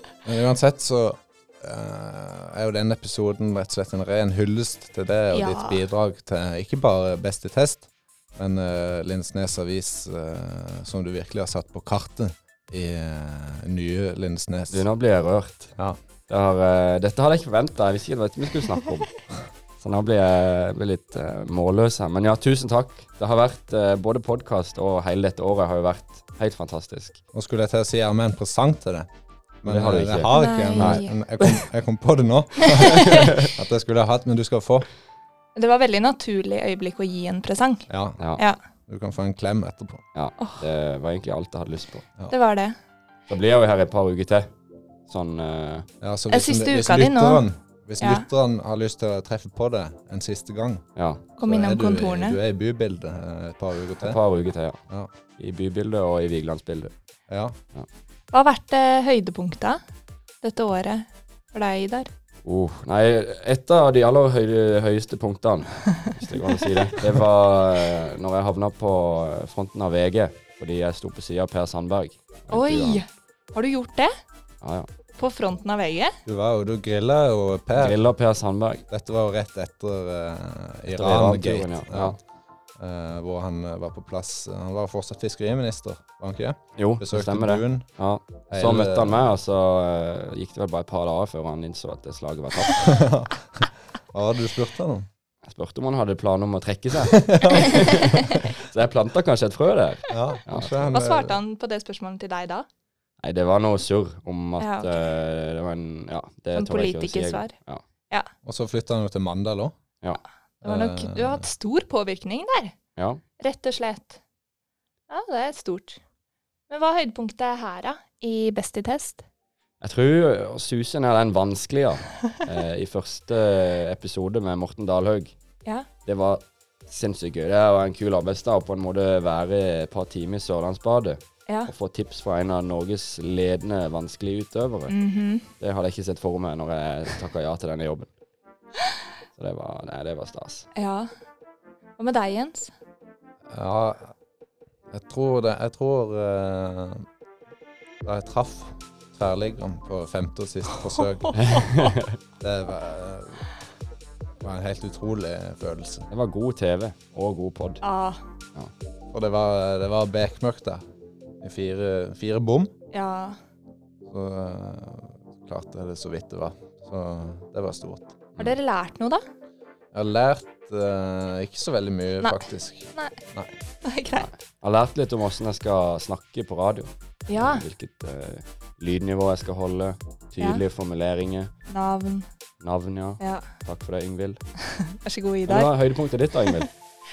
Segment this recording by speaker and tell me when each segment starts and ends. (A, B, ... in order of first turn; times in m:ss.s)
0:00.2-0:14.8 A
0:05.3-0:05.8 B
0:14.7-0:15.8 C
0:16.3-0:19.1 C
0:19.8-0:27.2 C
0:27.3-0:29.1 A
0:29.6-0:34.9 A
0:29.6-0:31.0 C
0:30.3-0:31.2 B
0:32.6-0:33.4 B
0:33.1-0:33.4 C
0:35.6-0:37.8 B
0:37.9-0:38.2 A
0:38.9-0:40.0 A
0:40.2-0:42.1 C
0:40.4-0:40.7 B
0:42.3-0:42.8 B
0:43.3-0:44.5 C
0:45.1-0:45.9 C
0:46.0-0:50.8 A
0:46.3-0:47.5 B
0:48.0-0:48.2 B
0:51.0-0:51.3 C
0:51.4-0:52.4 B
0:51.4-0:54.2 A
0:54.0-0:54.8 C
0:55.4-0:56.9 C
0:57.3-0:57.6 A
0:58.3-0:59.8 B
1:00.4-1:02.1 B
1:02.4-1:13.0 C
1:12.5-1:14.1 B
1:14.6-1:14.9 C
1:15.2-1:16.2 B
1:16.2-1:18.0 A
1:17.8-1:18.8 C
1:18.9-1:22.2 A
1:20.9-1:22.2 C
1:22.8-1:27.9 A
1:26.8-1:33.0 C
1:28.5-1:29.3 A
1:32.7-1:35.1 A
1:35.4-1:40.9 C
1:37.1-1:38.2 A
1:40.1-1:41.4 A
1:40.9-1:42.7 B
1:43.2-1:47.8 C
1:44.6-1:45.0 B
1:46.5-1:47.5 B
1:48.4-1:49.8 A
1:50.6-1:52.8 B
1:50.6-1:51.5 A
1:53.0-1:53.2 C
1:53.4-1:54.2 B
1:55.1-1:56.0 B
1:56.7-1:59.2 B
1:59.8-2:05.3 C
2:06.0-2:14.9 C
2:11.5-2:11.7 B
2:14.9-2:15.5 B
2:15.6-2:18.1 C
2:19.4-2:20.7 C
2:20.7-2:21.1 B
2:22.0-2:22.7 B
2:23.5-2:24.1 A
2:24.9-2:27.0 A
2:28.0-2:31.7 A
2:31.4-2:32.2 C
2:32.4-2:33.5 A
2:34.4-2:36.1 A
2:36.1-2:37.8 C
2:37.8-2:38.2 B
2:39.1-2:40.8 A
2:41.4-2:42.7 A
2:42.9-2:43.4 B
2:44.1-2:48.2 A
2:48.4-2:49.2 B
2:49.9-2:53.5 A
2:52.2-2:53.2 B
2:53.8-2:54.3 B
2:54.2-3:01.5 C
2:57.3-2:57.7 B
3:01.7-3:02.3 B
3:02.6-3:04.4 C
3:03.2-3:03.5 B
3:04.7-3:05.7 B
3:05.5-3:06.7 C